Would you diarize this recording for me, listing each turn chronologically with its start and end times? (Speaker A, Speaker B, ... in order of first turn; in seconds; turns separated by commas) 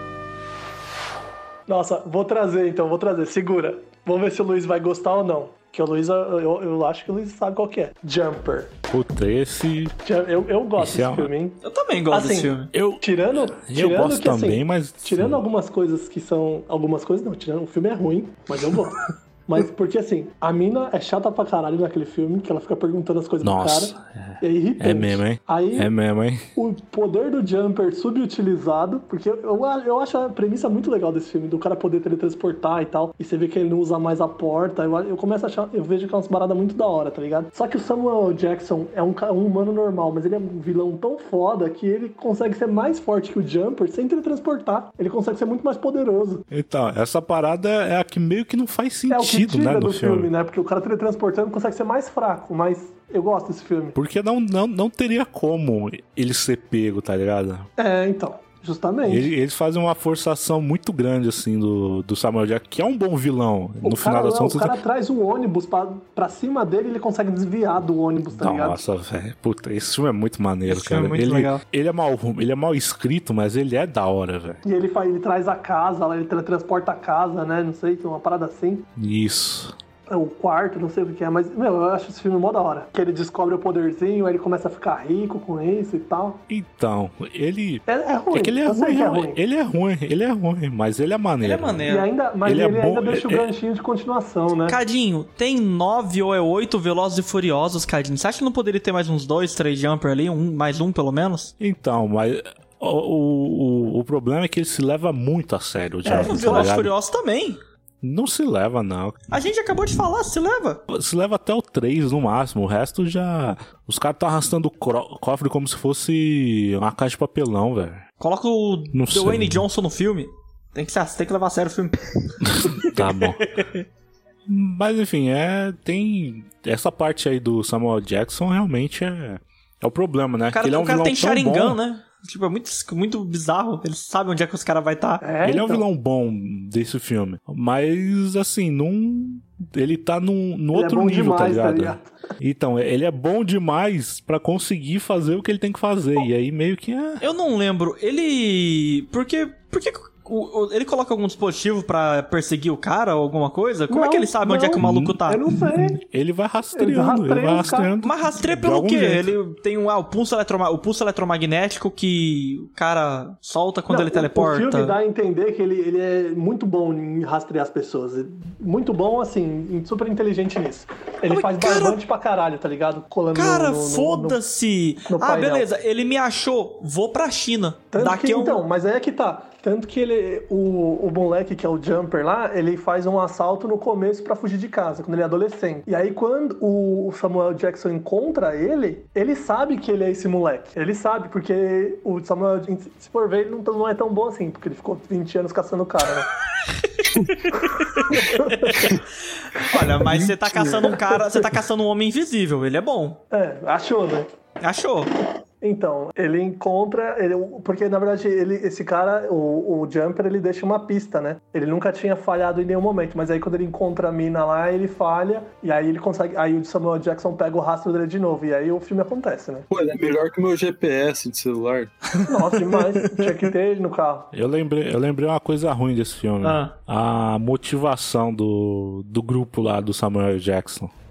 Speaker A: 1.7-8.7, Speaker B: 8.9-9.9, Speaker A: 10.0-25.9, Speaker B: 10.8-11.3, Speaker C: 11.6-12.7, Speaker B: 12.7-15.4, Speaker B: 23.4-26.4, Speaker A: 26.6-46.4, Speaker B: 46.5-50.3, Speaker A: 49.1-53.9, Speaker B: 53.9-57.7, Speaker A: 57.8-59.3, Speaker B: 59.0-64.8, Speaker A: 63.8-68.8, Speaker B: 68.3-74.6, Speaker C: 70.7-71.6, Speaker A: 74.6-78.9, Speaker B: 79.0-79.7, Speaker A: 80.1-86.4, Speaker B: 86.5-91.8, Speaker A: 87.9-89.4, Speaker C: 91.4-92.1, Speaker A: 91.8-94.8, Speaker B: 92.4-93.5, Speaker C: 94.7-101.5, Speaker B: 101.6-106.9, Speaker C: 106.0-107.6, Speaker A: 106.0-106.7, Speaker B: 108.0-109.2, Speaker C: 109.3-110.8, Speaker B: 110.9-118.0, Speaker C: 118.2-123.8, Speaker B: 118.9-119.6, Speaker B: 122.4-123.5, Speaker B: 124.5-131.8, Speaker C: 130.5-135.2, Speaker A: 135.2-135.8, Speaker B: 135.4-147.2, Speaker A: 140.7-142.1, Speaker C: 147.2-155.4, Speaker A: 153.9-156.0, Speaker B: 154.8-159.3, Speaker A: 156.7-157.9, Speaker C: 158.0-164.9, Speaker A: 163.9-174.4, Speaker C: 171.2-172.0, Speaker C: 173.3-178.6, Speaker A: 175.1-175.7, Speaker A: 177.9-196.3, Speaker C: 197.0-198.9, Speaker A: 197.8-198.8, Speaker C: 199.5-203.2, Speaker A: 200.5-201.4, Speaker A: 203.3-204.3, Speaker C: 204.6-205.1, Speaker A: 205.6-219.7, Speaker D: 219.7-221.9, Speaker A: 222.3-224.3, Speaker B: 224.3-230.9, Speaker C: 226.4-226.7